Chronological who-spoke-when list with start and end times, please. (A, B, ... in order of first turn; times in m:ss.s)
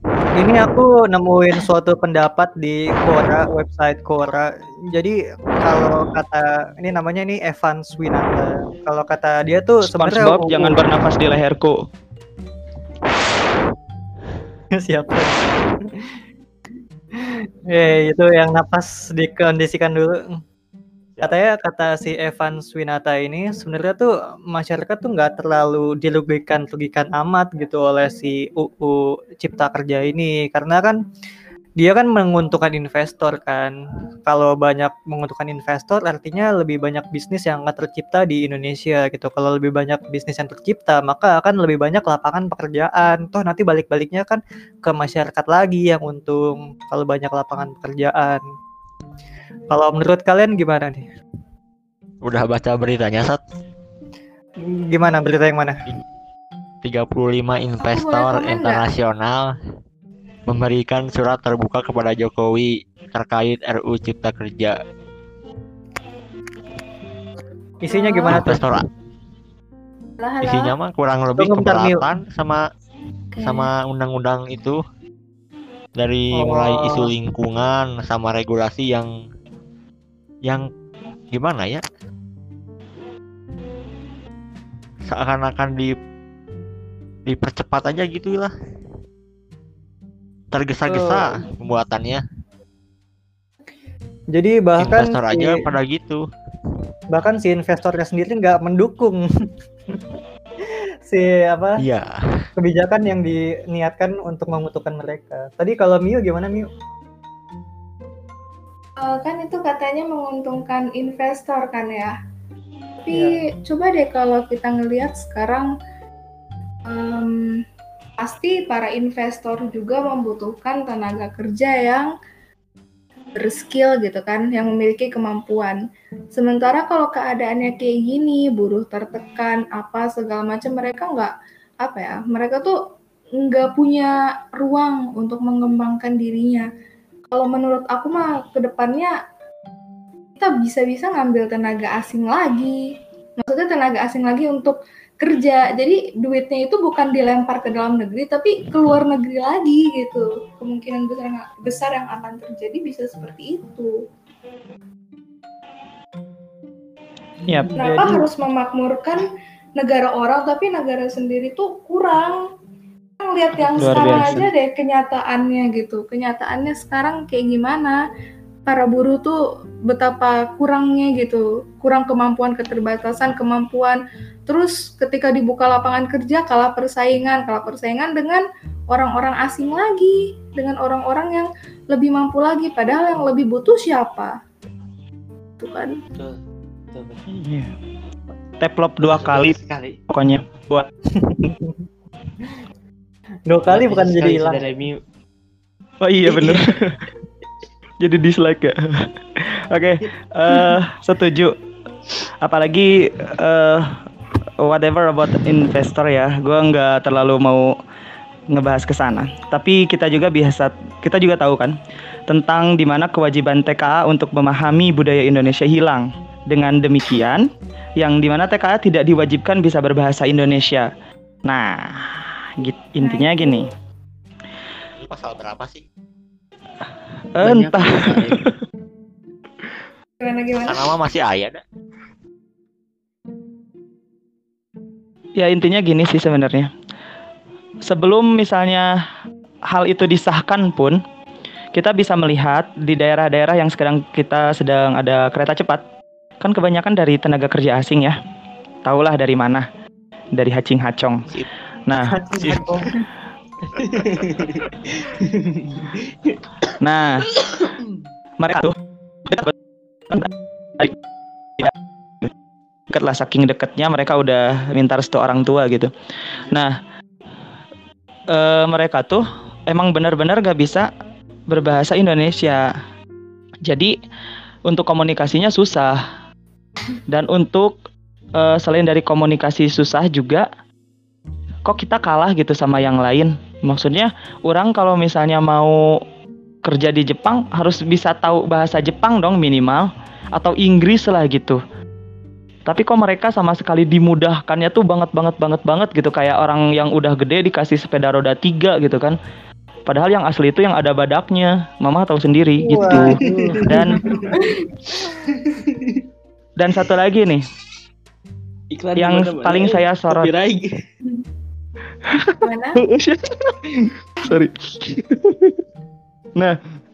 0:00.3-0:10.8 A
0:09.8-0:11.8 B
0:14.8-0:15.7 A
0:17.1-0:20.3 A
0:21.2-0:31.0 A
0:31.8-0:33.7 A
0:34.3-0:48.4 A
0:49.7-0:51.1 A
0:52.2-0:53.4 C
0:54.6-0:55.8 A
0:56.8-0:59.6 C
0:57.8-0:58.8 D
1:00.5-1:04.8 C
1:07.8-1:08.6 A
1:07.9-1:08.6 D
1:08.3-1:08.9 C
1:10.2-1:10.7 D
1:10.4-1:12.6 C
1:11.4-1:12.0 A
1:13.3-1:13.7 D
1:13.4-1:14.8 C
1:16.0-1:19.1 C
1:16.3-1:17.1 A
1:21.3-1:21.8 C
1:25.1-1:25.9 C
1:27.3-1:28.5 C
1:30.5-1:32.2 C
1:30.9-1:31.4 A
1:34.3-1:35.6 A
1:34.8-1:36.2 C
1:37.1-1:39.2 A
1:41.1-1:41.8 A
1:41.8-1:42.2 C
1:42.6-1:46.7 A
1:49.0-1:52.2 D
1:53.0-1:55.7 D
1:53.1-1:53.4 A
1:56.9-1:57.6 D
1:58.2-2:02.1 D
2:03.4-2:05.8 D
2:06.3-2:12.8 D
2:13.4-2:16.7 D
2:17.3-2:19.2 D
2:20.4-2:33.9 D
2:37.5-2:38.2 B
2:37.8-2:42.4 D
2:43.2-2:48.0 D
2:43.8-2:44.5 B
2:48.7-3:04.4 D
3:05.6-3:06.0 D
3:06.1-3:06.4 E
3:06.9-3:07.2 E
3:07.3-3:07.7 B
3:08.6-3:09.6 B
3:09.0-3:10.0 E
3:10.1-3:10.9 B
3:11.2-3:11.8 A
3:13.5-3:14.7 A
3:13.7-3:15.0 E
3:16.0-3:17.0 B
3:16.3-3:16.6 E
3:18.0-3:21.6 B
3:22.4-3:24.0 B
3:24.6-3:27.8 B
3:28.5-3:31.8 B
3:32.3-3:40.9 B
3:41.5-3:43.7 B
3:43.0-3:43.7 D
3:45.0-3:45.8 C
3:47.4-3:48.6 B
3:47.4-3:48.4 E
3:50.2-3:50.9 D
3:50.6-3:51.6 C
3:55.4-3:56.7 B
3:57.8-3:58.9 B
3:59.7-4:01.0 B
4:01.8-4:05.8 B
4:06.4-4:08.2 B
4:08.8-4:09.7 B
4:10.4-4:12.2 B
4:12.3-4:12.9 A
4:12.4-4:12.9 C
4:13.8-4:16.7 E
4:16.8-4:17.3 B
4:17.4-4:18.1 E
4:18.4-4:18.7 B
4:19.3-4:19.5 B
4:20.1-4:21.0 B
4:22.9-4:25.9 B
4:26.4-4:26.8 B
4:28.3-4:30.9 B
4:31.5-4:32.7 B
4:33.6-4:34.0 B
4:34.7-4:36.0 B
4:37.1-4:37.8 B
4:38.4-4:40.5 B
4:41.6-4:45.8 B
4:46.6-4:51.6 B
4:52.7-4:59.2 B
4:59.9-5:04.0 B
5:02.6-5:04.3 A
5:03.8-5:04.4 E
5:04.4-5:04.6 D
5:05.1-5:06.0 E
5:06.6-5:07.4 B
5:08.7-5:10.7 E
5:09.0-5:10.3 B
5:12.1-5:15.5 B
5:12.4-5:12.8 D